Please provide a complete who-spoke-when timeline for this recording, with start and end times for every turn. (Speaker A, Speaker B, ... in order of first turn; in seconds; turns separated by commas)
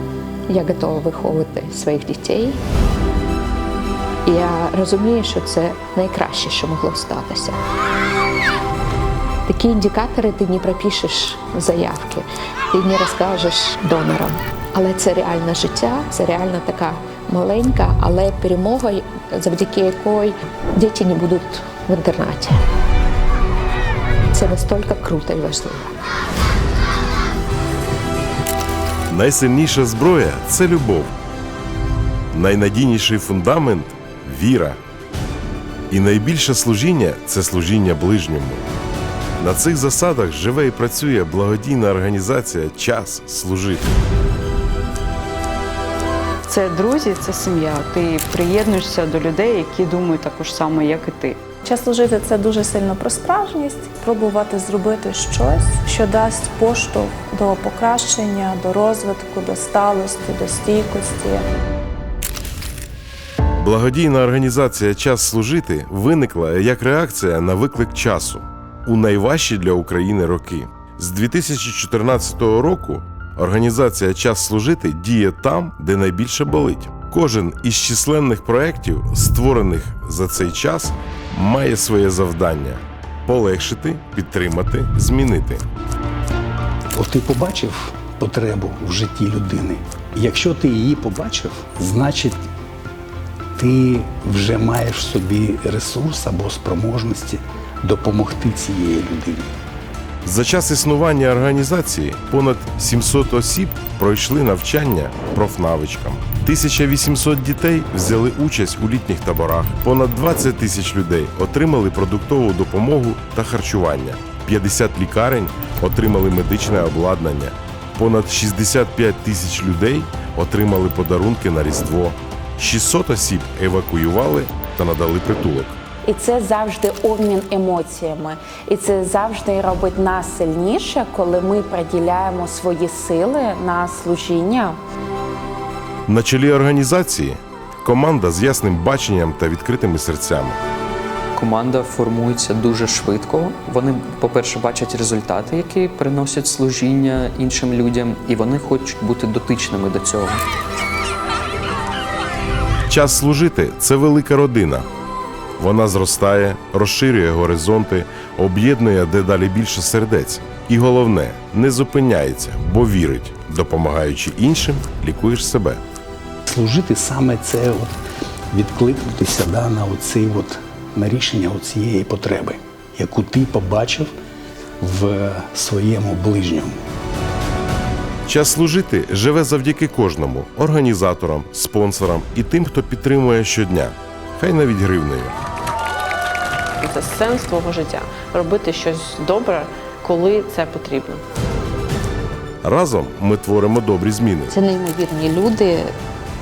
Speaker A: 0.5-2.6, Speaker A: 4.2-7.6, Speaker A: 9.4-22.6, Speaker A: 24.3-25.9, Speaker B: 29.1-31.1, Speaker B: 32.3-34.8, Speaker B: 35.9-38.6, Speaker B: 39.4-43.9, Speaker C: 46.5-51.4, Speaker D: 51.6-61.4, Speaker B: 63.6-85.6, Speaker E: 86.9-92.4, Speaker E: 93.5-99.5, Speaker B: 100.2-125.8, Speaker F: 126.0-134.8, Speaker B: 136.1-140.6, Speaker G: 141.3-150.4, Speaker B: 152.9-154.9, Speaker B: 155.6-165.8, Speaker E: 166.5-167.9, Speaker E: 168.5-174.1, Speaker E: 174.8-176.8, Speaker B: 178.2-185.3, Speaker H: 186.8-191.2, Speaker B: 192.6-194.5, Speaker A: 194.5-195.9